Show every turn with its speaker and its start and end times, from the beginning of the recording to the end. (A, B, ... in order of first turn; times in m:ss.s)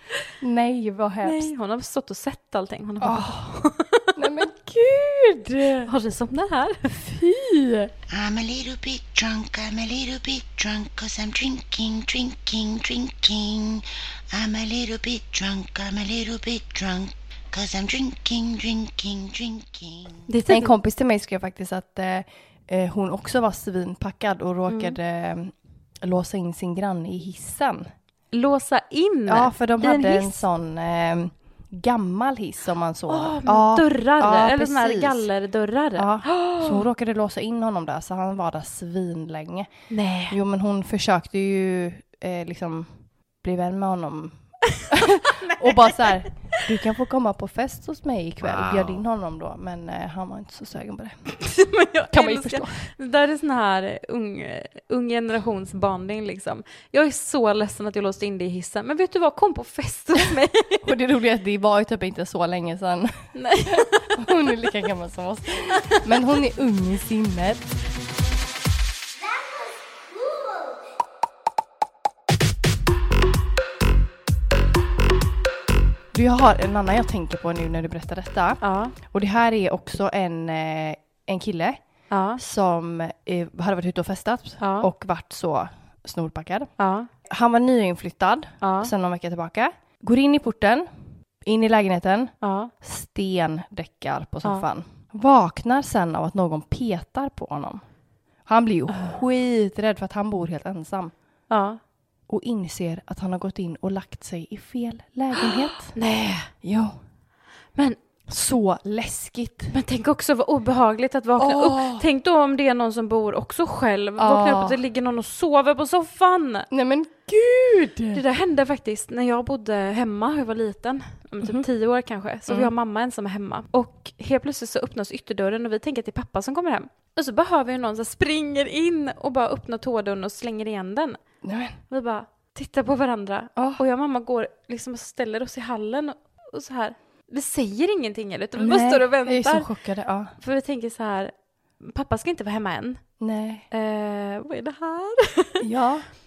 0:00.4-0:01.5 A
0:01.2-0:04.2 B
0:03.0-0:03.5 A
0:04.2-0:05.9 A
0:05.9-0:07.0 B
0:07.0-0:07.9 A
0:08.1-0:20.1 C
0:20.3-0:20.8 B
0:20.5-0:27.9 A
0:24.7-0:25.0 B
0:28.3-0:30.4 B
0:29.3-0:35.3 A
0:33.1-0:36.9 B
0:36.0-0:39.7 A
0:39.9-0:40.4 B
0:40.3-0:42.9 A
0:43.4-0:44.4 A
0:44.9-0:51.2 A
0:45.4-0:46.2 B
0:51.4-1:00.9 B
0:52.1-0:52.8 A
1:00.8-1:03.1 A
1:03.4-1:04.2 B
1:03.7-1:07.7 A
1:16.1-1:21.8 A
1:18.6-1:19.0 B
1:22.1-1:22.4 B
1:22.4-1:26.7 A
1:24.6-1:24.9 B
1:26.8-1:27.1 B
1:27.3-1:30.9 A
1:28.6-1:28.9 B
1:31.5-1:37.8 A
1:32.4-1:32.7 B
1:38.5-1:41.1 A
1:41.5-1:41.8 B
1:42.3-1:46.0 A
1:45.4-1:46.5 B
1:46.6-1:47.0 A
1:48.3-1:49.8 A
1:49.7-1:56.7 B
1:51.4-1:52.0 A
1:54.2-1:54.8 A
1:56.7-1:58.2 A
1:58.1-2:11.2 B
2:01.4-2:01.7 A
2:11.4-2:11.8 A
2:11.9-2:19.7 B
2:13.6-2:13.8 A
2:18.6-2:20.3 A
2:20.4-2:23.0 B
2:23.2-2:23.7 A
2:23.7-2:25.6 B
2:25.6-2:26.1 A